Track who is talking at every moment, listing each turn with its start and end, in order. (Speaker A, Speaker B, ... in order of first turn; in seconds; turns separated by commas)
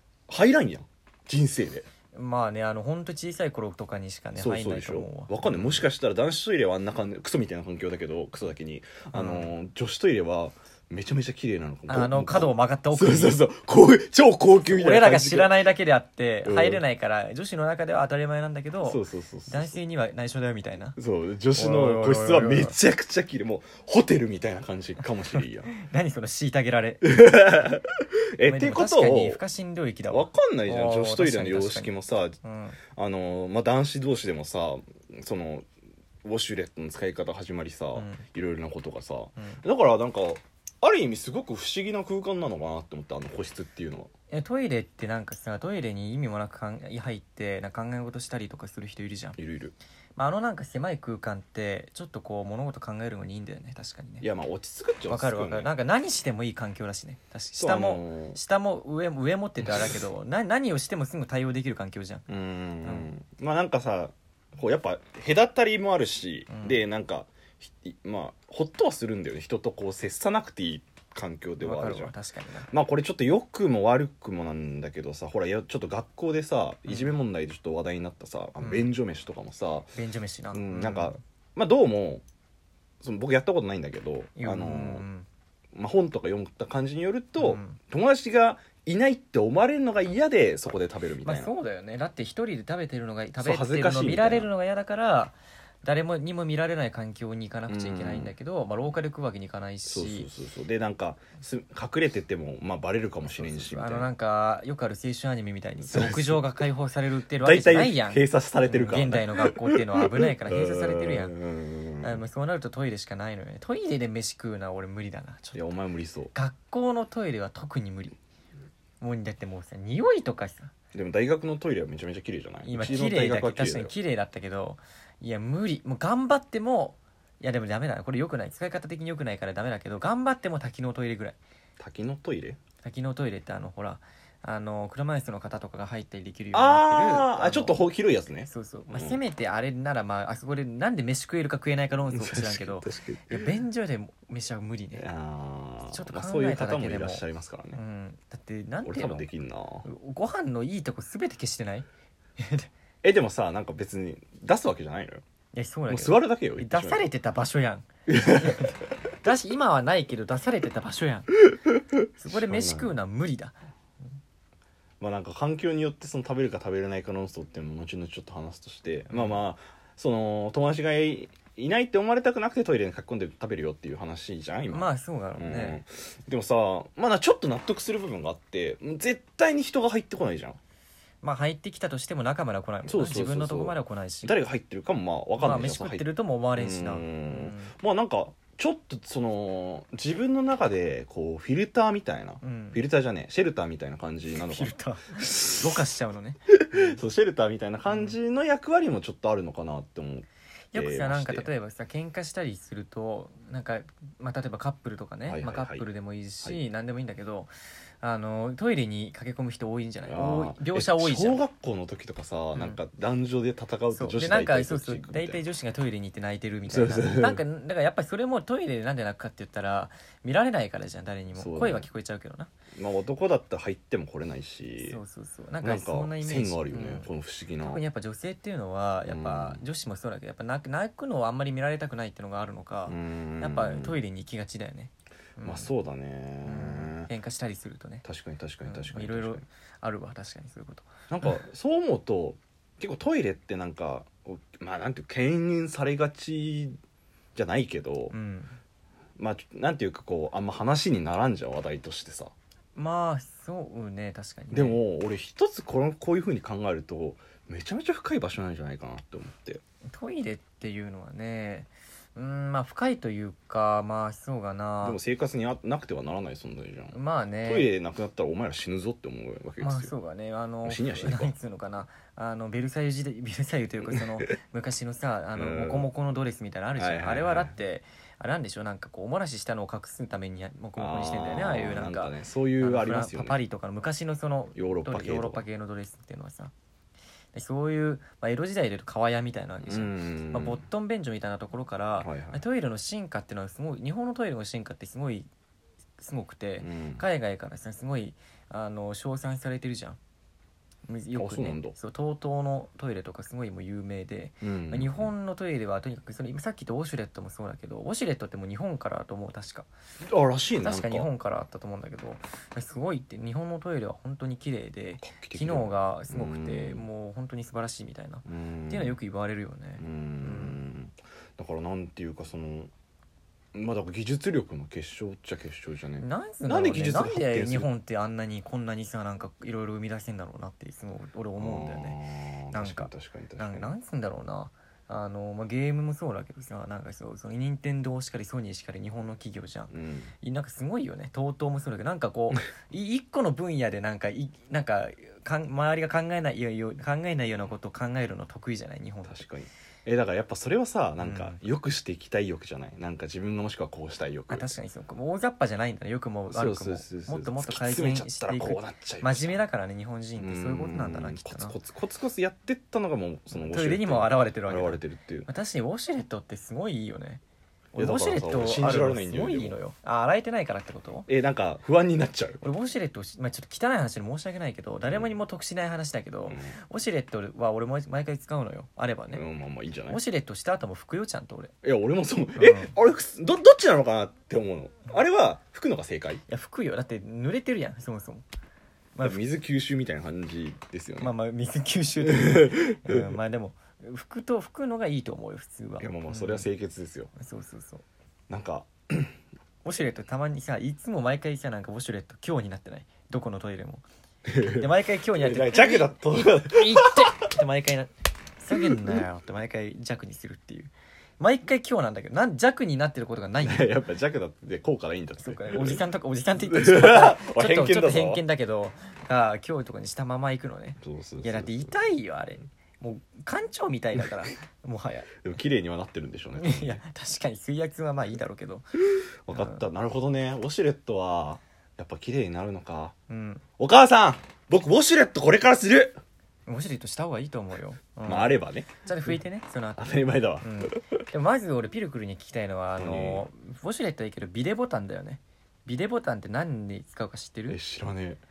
Speaker A: 0.3-1.9, Speaker B: 2.1-5.8, Speaker A: 4.3-15.6, Speaker B: 9.1-9.5, Speaker B: 11.9-13.4, Speaker B: 14.6-20.9, Speaker A: 16.4-16.8, Speaker A: 18.8-19.7, Speaker A: 20.9-25.7, Speaker B: 21.6-22.8, Speaker B: 25.7-27.1, Speaker A: 27.0-29.4, Speaker B: 28.4-32.8, Speaker A: 30.1-32.4, Speaker A: 32.9-35.6, Speaker A: 36.2-44.1, Speaker B: 37.9-38.2, Speaker B: 44.3-49.4, Speaker A: 49.4-49.7, Speaker B: 50.1-54.2, Speaker A: 54.2-55.7, Speaker B: 55.1-62.3, Speaker A: 57.6-58.4, Speaker A: 62.3-72.1, Speaker B: 62.8-63.1, Speaker B: 66.5-66.8, Speaker B: 71.6-72.7, Speaker A: 72.7-79.9, Speaker B: 76.9-77.1, Speaker B: 78.6-78.9, Speaker B: 79.9-81.2, Speaker A: 80.5-82.2, Speaker A: 83.0-85.0, Speaker B: 84.4-85.3, Speaker A: 85.7-91.5, Speaker B: 87.4-87.8, Speaker B: 91.2-100.3, Speaker A: 93.4-94.5, Speaker A: 97.7-98.3, Speaker A: 99.9-104.1, Speaker B: 103.2-111.4, Speaker A: 105.8-106.4, Speaker A: 107.4-112.2, Speaker B: 112.0-115.6, Speaker A: 115.5-116.3, Speaker B: 116.3-118.2, Speaker B: 119.0-120.7, Speaker A: 120.9-123.9, Speaker B: 122.6-131.4, Speaker A: 131.8-132.6, Speaker B: 132.8-137.8, Speaker A: 136.5-139.2, Speaker B: 138.5-145.1, Speaker A: 142.1-143.5, Speaker A: 145.0-147.8, Speaker B: 145.9-149.2, Speaker A: 148.8-149.9, Speaker B: 149.8-151.8, Speaker B: 152.4-152.7, Speaker A: 153.0-155.2, Speaker B: 155.5-161.3, Speaker A: 155.9-157.1, Speaker A: 158.1-158.8, Speaker B: 162.2-163.6, Speaker A: 162.2-162.9, Speaker A: 165.0-180.6, Speaker B: 169.1-169.4, Speaker B: 174.7-175.8, Speaker B: 181.2-184.3, Speaker A: 182.8-195.8, Speaker B: 185.4-187.7, Speaker B: 192.4-192.8, Speaker B: 194.4-197.0, Speaker A: 196.5-201.5, Speaker B: 197.9-198.2, Speaker B: 200.7-207.5, Speaker A: 205.3-205.8, Speaker B: 208.0-211.4, Speaker A: 210.1-215.4, Speaker B: 213.9-222.5, Speaker A: 216.7-217.4, Speaker A: 221.3-221.9, Speaker A: 222.8-225.0, Speaker B: 224.8-227.1, Speaker A: 225.6-227.8, Speaker B: 227.6-235.7, Speaker A: 229.0-229.6, Speaker A: 232.9-234.0, Speaker A: 235.4-237.1, Speaker B: 236.4-238.0, Speaker A: 238.0-239.4, Speaker B: 238.7-241.4, Speaker A: 241.1-246.8, Speaker A: 247.3-248.1, Speaker B: 248.1-248.6, Speaker A: 249.2-252.3, Speaker B: 252.7-254.8, Speaker A: 254.5-259.6, Speaker B: 259.9-265.0, Speaker A: 264.8-269.9, Speaker B: 266.9-267.7, Speaker B: 269.6-286.5, Speaker A: 270.6-271.3, Speaker A: 273.9-274.3, Speaker A: 275.3-275.9, Speaker A: 276.8-277.6, Speaker A: 280.8-283.4, Speaker A: 284.5-285.4, Speaker B: 287.3-295.3, Speaker A: 289.6-290.6, Speaker A: 292.0-292.4, Speaker B: 296.0-300.0, Speaker A: 296.6-297.0, Speaker B: 300.9-309.7, Speaker A: 301.1-301.7, Speaker A: 304.4-305.1, Speaker A: 310.0-311.1, Speaker B: 310.6-320.6, Speaker A: 315.0-316.9, Speaker A: 318.2-319.0, Speaker A: 319.8-322.7, Speaker A: 323.5-327.7, Speaker B: 326.0-332.0, Speaker A: 331.4-333.7, Speaker B: 332.5-349.2, Speaker A: 339.7-340.1, Speaker A: 349.1-354.5, Speaker B: 351.0-351.4, Speaker B: 354.3-361.6, Speaker A: 356.3-359.4, Speaker A: 360.2-365.3, Speaker B: 363.3-367.2, Speaker B: 367.7-371.1, Speaker A: 367.8-369.6, Speaker A: 371.1-372.4, Speaker B: 372.4-379.2, Speaker A: 376.3-376.6, Speaker A: 379.1-380.0, Speaker B: 379.9-381.5, Speaker A: 381.6-386.2, Speaker B: 382.4-382.7, Speaker B: 386.3-388.2, Speaker A: 389.0-391.1, Speaker B: 391.0-396.5, Speaker A: 392.0-393.1, Speaker A: 395.8-397.1, Speaker B: 397.1-397.8, Speaker A: 398.3-399.1, Speaker B: 399.6-403.8, Speaker A: 404.3-407.3, Speaker B: 404.4-413.8, Speaker A: 408.5-408.9, Speaker A: 413.4-415.8, Speaker B: 415.2-425.1, Speaker A: 416.4-418.2, Speaker A: 420.8-421.9, Speaker A: 425.2-426.8, Speaker B: 426.3-428.7, Speaker A: 429.3-432.9, Speaker B: 429.3-429.6, Speaker B: 433.1-433.4, Speaker A: 433.6-436.0, Speaker B: 436.4-447.6, Speaker A: 438.0-438.7, Speaker A: 439.8-440.9, Speaker A: 442.8-443.3, Speaker A: 447.5-448.2